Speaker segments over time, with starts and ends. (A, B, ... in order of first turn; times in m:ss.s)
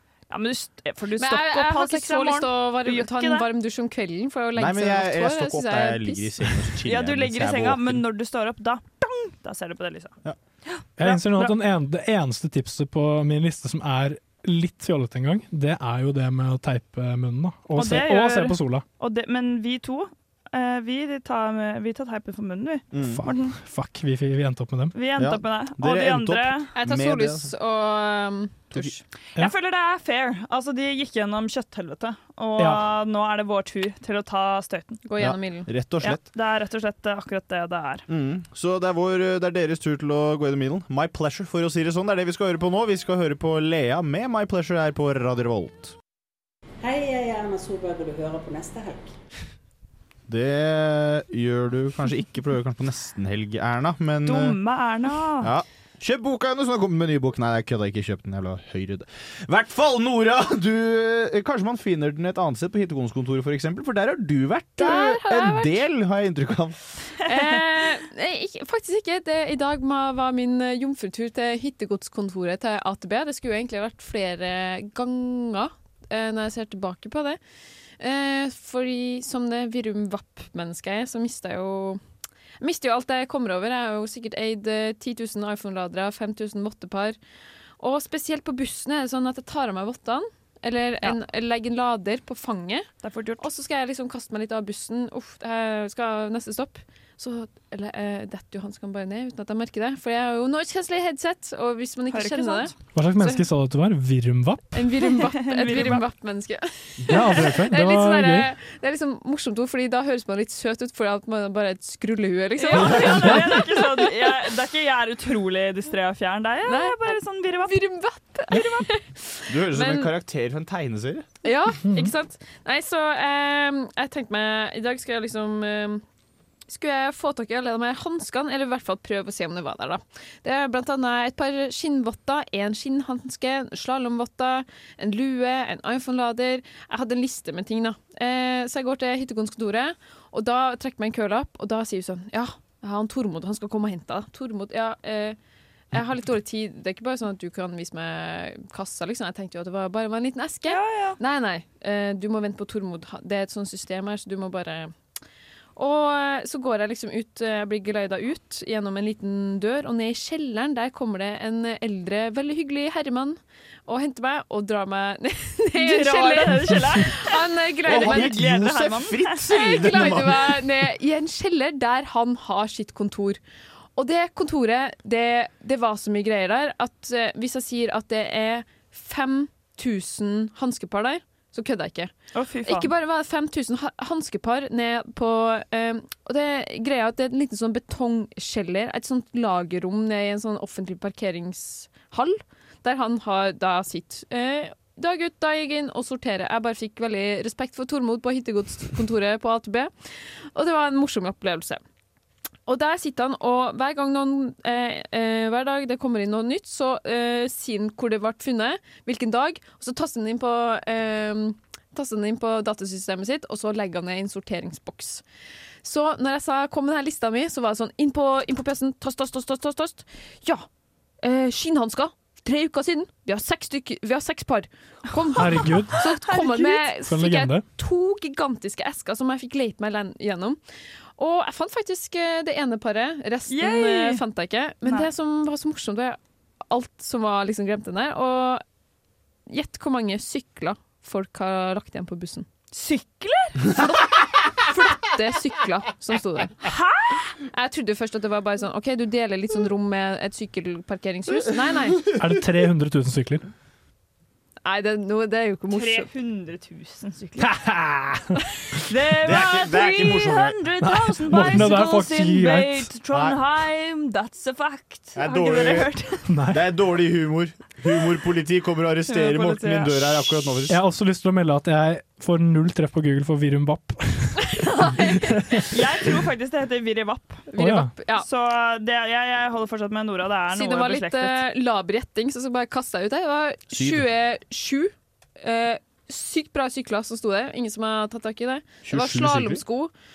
0:00.3-0:03.5 A
0:01.2-0:06.3 B
0:04.6-0:08.0 C
0:06.8-0:11.6 A
0:11.0-0:18.8 D
0:17.7-0:23.6 A
0:22.9-0:23.2 C
0:23.0-0:24.9 D
0:24.9-0:26.7 A
0:25.2-0:27.5 C
0:26.7-0:29.0 B
0:29.4-0:35.0 A
0:32.6-0:32.9 D
0:35.0-0:35.7 B
0:35.2-0:36.2 C
0:36.0-0:38.0 A
0:38.1-0:45.9 C
0:46.8-0:49.1 E
0:50.3-0:54.6 C
0:54.2-0:55.5 A
0:55.4-1:06.8 C
1:04.8-1:05.8 B
1:07.2-1:17.4 B
1:18.0-1:22.0 B
1:22.6-1:27.2 B
1:27.8-1:32.9 B
1:33.0-1:33.4 A
1:33.4-1:43.4 B
1:42.1-1:42.7 A
1:42.9-1:44.9 D
1:44.7-1:54.0 B
1:45.4-1:46.0 A
1:47.1-1:48.5 D
1:52.6-1:57.8 A
1:53.2-1:53.4 D
1:56.6-2:00.1 B
1:59.5-2:01.3 C
2:01.4-2:06.0 B
2:06.7-2:25.4 B
2:25.9-2:34.9 B
2:30.7-2:31.2 A
2:35.8-2:48.4 B
2:45.7-2:49.4 A
2:47.8-2:50.8 C
2:49.5-2:53.4 B
2:54.0-3:02.1 B
3:02.3-3:02.9 A
3:02.6-3:19.9 B
3:20.5-3:21.8 B
3:22.7-3:35.2 B
3:35.8-3:40.7 B
3:41.2-3:50.6 B
3:45.4-3:46.0 D
3:46.0-3:46.9 A
3:47.0-3:47.6 D
3:51.2-3:56.2 B
3:53.5-3:54.2 A
3:56.7-3:58.6 B
3:59.5-4:02.4 B
4:02.7-4:03.7 A
4:03.7-4:06.6 B
4:06.6-4:07.3 A
4:07.4-4:12.0 B
4:12.2-4:13.4 D
4:14.6-4:16.1 B
4:15.7-4:17.5 A
4:17.4-4:18.2 D
4:18.8-4:26.2 A
4:19.2-4:20.6 C
4:20.8-4:22.9 D
4:23.1-4:23.4 C
4:25.2-4:25.9 C
4:26.3-4:26.6 D
4:26.5-4:30.8 C
4:29.1-4:30.3 A
4:30.7-4:35.7 D
4:34.6-4:35.7 B
4:35.6-4:37.5 A
4:37.5-4:38.2 B
4:37.6-4:37.9 D
4:38.2-4:41.4 A
4:40.5-4:49.9 B
4:48.8-4:49.6 C